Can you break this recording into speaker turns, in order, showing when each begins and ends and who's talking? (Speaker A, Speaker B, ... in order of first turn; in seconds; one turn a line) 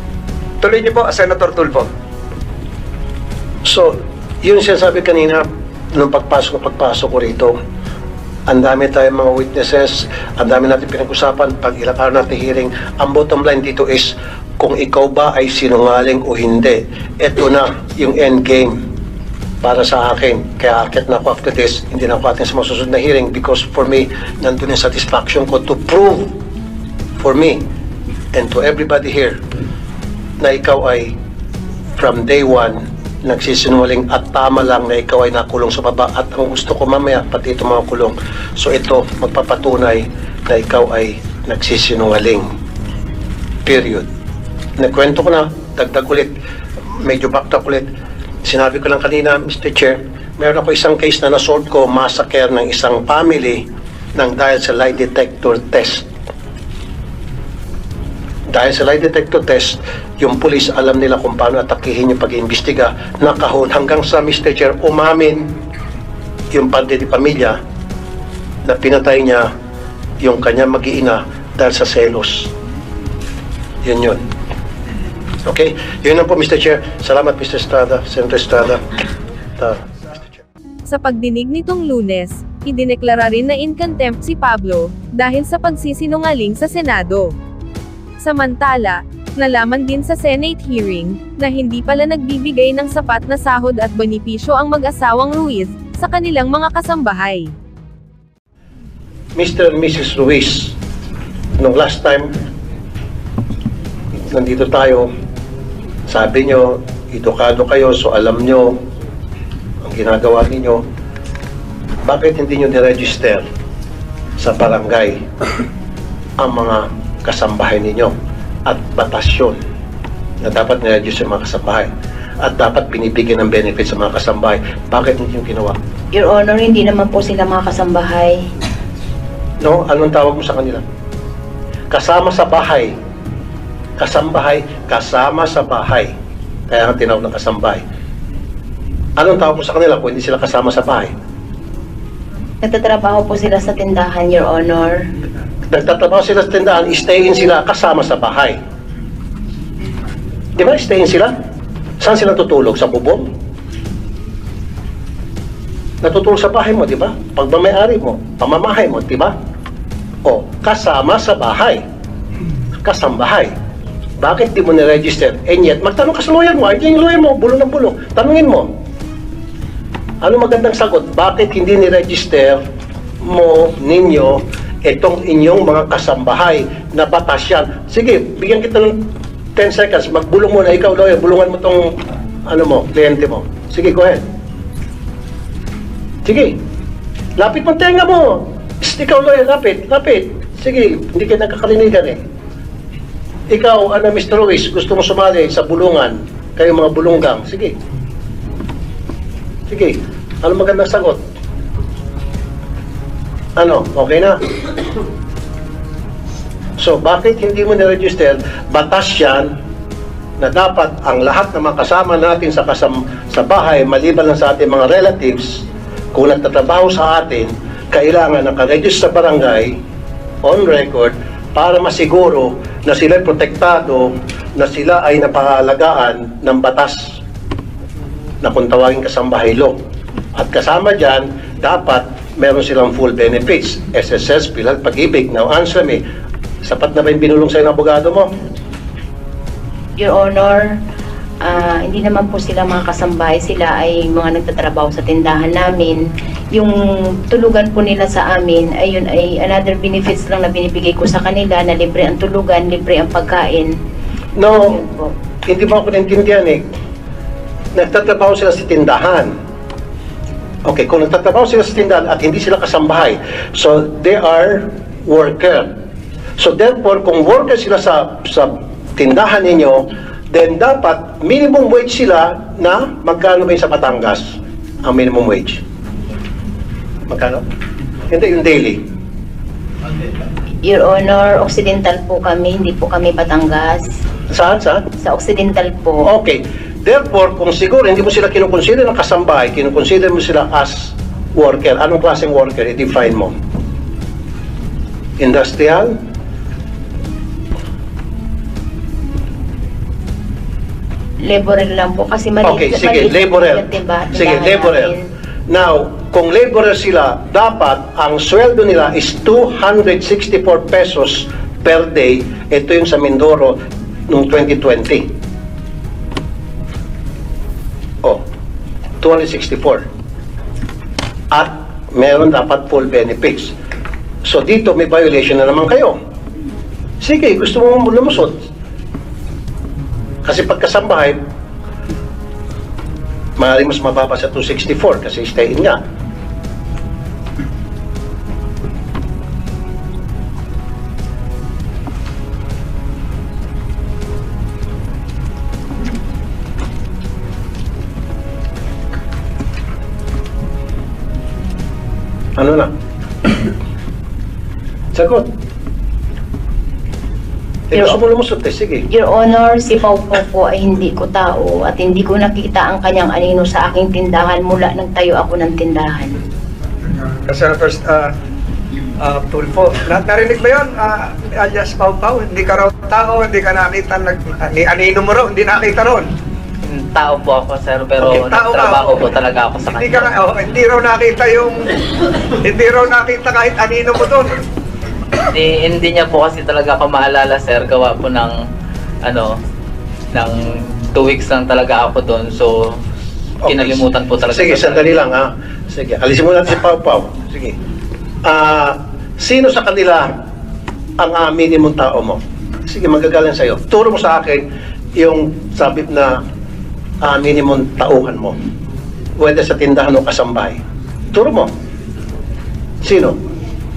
Speaker A: 0.6-1.9
Speaker B: 3.6-7.5
Speaker B: 8.5-18.8
Speaker B: 19.6-26.3
Speaker B: 27.2-27.6
Speaker B: 28.3-29.4
Speaker B: 30.4-31.1
Speaker B: 32.0-42.5
Speaker B: 43.6-44.1
Speaker B: 44.8-46.3
Speaker B: 46.9-47.9
Speaker B: 48.4-53.6
Speaker B: 54.1-56.1
Speaker B: 58.5-65.5
Speaker B: 66.5-67.6
Speaker B: 68.7-69.5
Speaker B: 70.2-72.5
Speaker B: 73.8-74.2
Speaker B: 75.4-78.8
Speaker B: 79.6-80.4
Speaker C: 80.8-87.3
Speaker C: 88.2-97.5
Speaker B: 99.3-100.8
Speaker B: 101.6-102.3
Speaker B: 104.3-105.1
Speaker B: 106.1-108.8
Speaker B: 109.8-110.8
Speaker B: 112.0-113.4
Speaker B: 114.4-115.2
Speaker B: 116.4-118.1
Speaker B: 118.7-119.6
Speaker B: 120.4-121.9
Speaker B: 122.4-125.8
Speaker D: 126.1-128.4
Speaker B: 129.6-130.8
Speaker B: 131.9-132.9
Speaker B: 134.0-136.1
Speaker B: 136.7-137.8
Speaker B: 139.2-141.1
Speaker D: 142.6-145.0
Speaker B: 145.7-148.6
Speaker B: 150.6-151.3
Speaker B: 152.0-153.3
Speaker B: 156.0-159.3
Speaker B: 160.2-161.8
Speaker B: 162.8-163.5
Speaker B: 164.2-168.7
Speaker B: 170.2-172.6
Speaker B: 173.2-181.9
Speaker B: 182.5-184.2
Speaker B: 186.2-186.6
Speaker B: 187.4-192.2
Speaker B: 193.5-197.8
Speaker B: 199.7-201.3
Speaker B: 203.6-204.4
Speaker B: 206.8-209.5
Speaker B: 210.4-219.7
Speaker B: 220.4-227.2
Speaker B: 228.4-229.8
Speaker B: 230.3-236.0
Speaker B: 236.6-238.3
Speaker D: 240.0-240.6
Speaker D: 241.4-246.0
Speaker D: 246.5-253.7
Speaker B: 254.3-254.8
Speaker D: 254.6-255.1
Speaker B: 255.5-256.7
Speaker B: 257.7-259.3
Speaker B: 260.6-265.7
Speaker B: 266.4-275.6
Speaker B: 277.1-277.4
Speaker B: 278.1-278.8
Speaker D: 280.6-283.8
Speaker B: 284.3-284.9
Speaker D: 285.0-286.1
Speaker B: 286.1-293.3
Speaker B: 295.2-295.9
Speaker D: 301.2-305.0
Speaker B: 302.4-304.9
Speaker B: 305.5-315.1
Speaker B: 319.0-319.8
Speaker B: 321.3-323.5
Speaker B: 324.2-326.0
Speaker B: 327.0-328.4
Speaker B: 330.2-331.2
Speaker B: 333.4-335.8
Speaker B: 352.4-352.7
Speaker B: 354.9-355.3
Speaker B: 357.7-358.8
Speaker D: 357.7-358.0
Speaker D: 358.9-366.2
Speaker A: 367.3-368.1
Speaker A: 369.0-376.1
Speaker E: 376.6-380.1
Speaker A: 378.0-379.1
Speaker A: 379.7-381.8
Speaker A: 382.4-384.4
Speaker E: 385.3-388.4
Speaker E: 389.0-389.3
Speaker E: 390.1-392.6
Speaker B: 393.4-397.6
Speaker E: 393.4-395.0
Speaker B: 398.2-400.1
Speaker B: 401.0-406.2
Speaker B: 407.0-408.4
Speaker B: 409.2-410.6
Speaker B: 411.1-411.5
Speaker B: 412.8-413.2